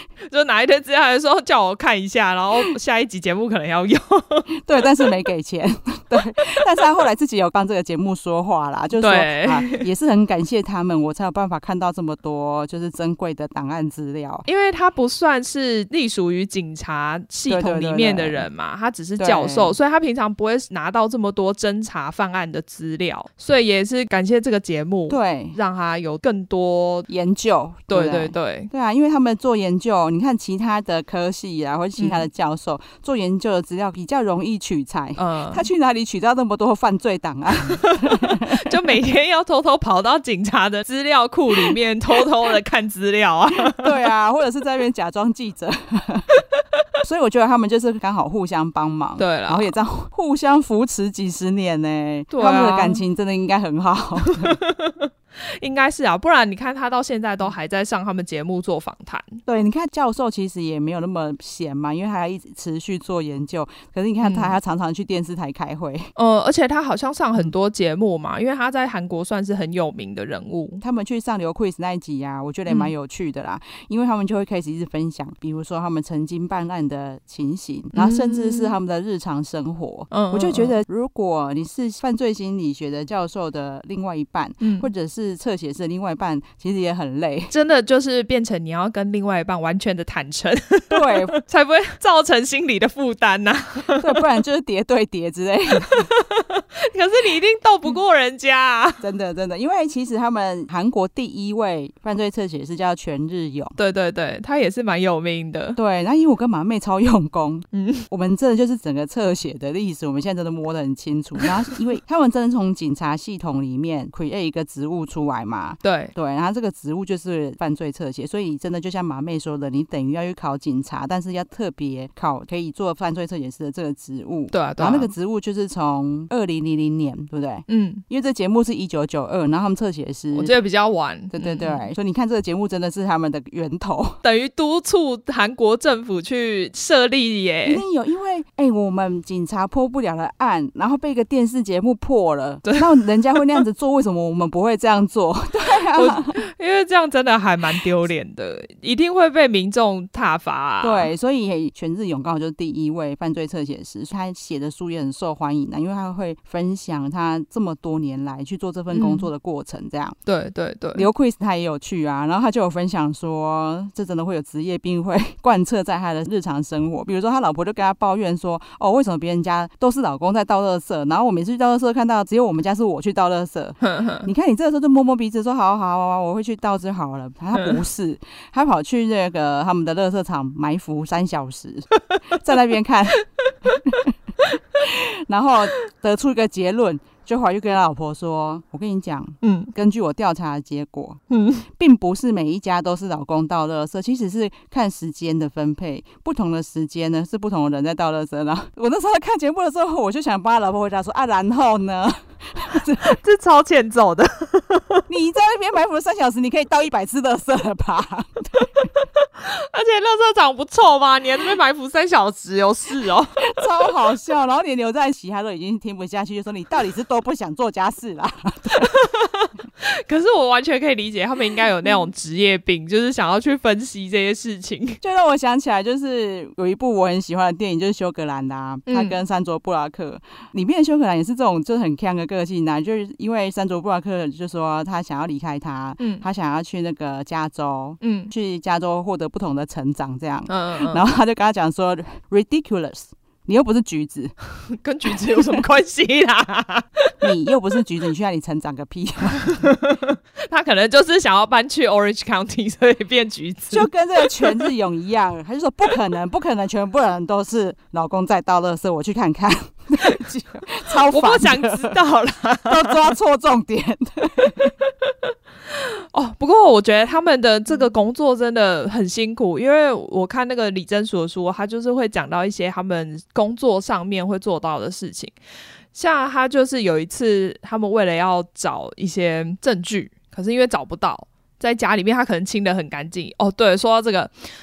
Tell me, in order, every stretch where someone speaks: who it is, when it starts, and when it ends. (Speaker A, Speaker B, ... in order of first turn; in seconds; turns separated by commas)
Speaker A: 0.3-4.5, Speaker B: 4.6-14.4, Speaker A: 9.0-9.8, Speaker A: 14.4-27.1, Speaker B: 17.5-18.4, Speaker B: 19.2-19.8, Speaker B: 25.1-25.6, Speaker B: 27.1-38.8, Speaker A: 27.9-28.7, Speaker A: 32.0-32.2, Speaker A: 35.2-35.7, Speaker A: 37.6-44.0, Speaker B: 43.6-46.4, Speaker B: 47.0-54.6, Speaker A: 49.2-49.7, Speaker A: 52.3-53.0, Speaker A: 54.3-59.4, Speaker B: 59.5-66.1, Speaker A: 64.2-64.5, Speaker A: 66.2-70.8, Speaker B: 70.8-87.5, Speaker A: 77.9-78.8, Speaker A: 80.1-80.8, Speaker A: 84.6-84.9, Speaker A: 87.5-94.2, Speaker B: 90.9-91.4, Speaker B: 94.0-96.1, Speaker A: 95.9-99.0, Speaker B: 99.0-103.8, Speaker A: 103.8-105.8, Speaker B: 105.8-130.5, Speaker A: 107.7-108.0, Speaker A: 115.8-116.1, Speaker A: 124.5-125.1, Speaker A: 127.7-128.0, Speaker A: 130.3-131.8, Speaker B: 131.3-134.2, Speaker A: 134.2-137.8, Speaker B: 137.7-146.4, Speaker A: 142.6-143.6, Speaker A: 145.9-151.1, Speaker B: 150.8-160.2, Speaker A: 158.9-159.3, Speaker A: 160.2-161.1, Speaker B: 160.9-184.1, Speaker A: 173.8-174.3, Speaker B: 184.8-203.2, Speaker A: 189.4-189.7, Speaker A: 191.3-191.7, Speaker A: 203.0-205.0, Speaker B: 205.1-208.9, Speaker A: 209.2-213.4, Speaker B: 213.4-218.9, Speaker A: 218.7-225.0, Speaker B: 225.0-244.3, Speaker A: 228.9-229.2, Speaker A: 236.0-236.2, Speaker A: 238.0-238.3, Speaker A: 240.5-241.0, Speaker A: 244.7-247.2, Speaker B: 245.0-245.6, Speaker B: 247.2-249.6, Speaker A: 249.4-254.7, Speaker B: 253.7-262.0, Speaker A: 260.9-263.0, Speaker B: 262.7-264.7, Speaker A: 264.6-265.1, Speaker A: 265.7-275.3, Speaker A: 275.9-284.3